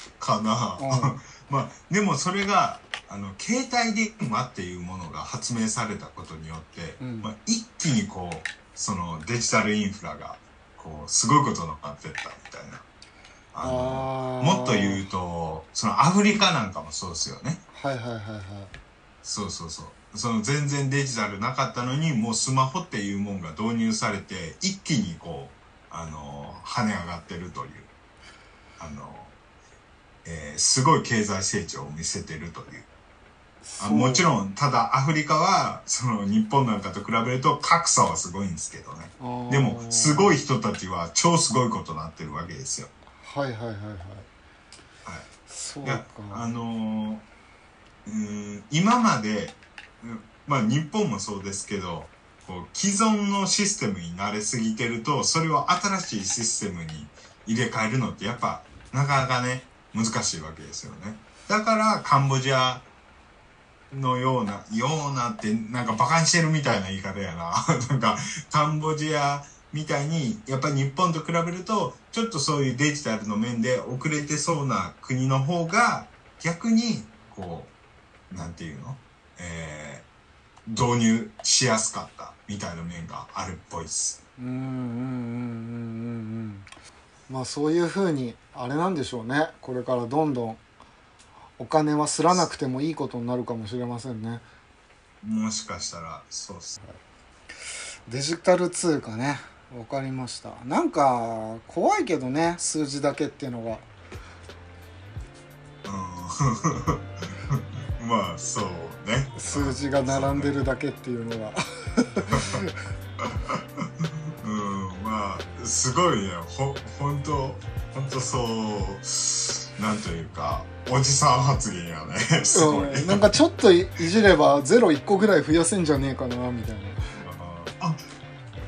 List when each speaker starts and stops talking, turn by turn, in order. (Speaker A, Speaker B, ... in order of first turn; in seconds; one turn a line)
Speaker A: 0.2-12.8
Speaker B: 0.8-1.2
Speaker B: 7.0-7.3
Speaker A: 13.5-17.6
Speaker B: 13.6-15.1
Speaker B: 17.7-18.7
Speaker A: 19.2-27.9
Speaker A: 28.8-29.4
Speaker A: 30.2-32.9
Speaker B: 33.6-34.3
Speaker A: 33.8-42.9
Speaker B: 39.2-40.4
Speaker B: 43.2-44.3
Speaker B: 45.5-46.5
Speaker A: 45.8-47.3
Speaker A: 48.0-62.9
Speaker A: 63.9-77.7
Speaker A: 78.3-80.1
Speaker A: 80.7-84.2
Speaker B: 84.4-86.7
Speaker B: 87.3-90.6
Speaker B: 91.6-94.4
Speaker A: 95.2-96.8
Speaker B: 98.1-103.9
Speaker A: 105.8-110.5
Speaker B: 109.4-112.8
Speaker A: 112.3-112.6
Speaker A: 113.2-123.3
Speaker B: 122.5-127.1
Speaker A: 127.2-128.0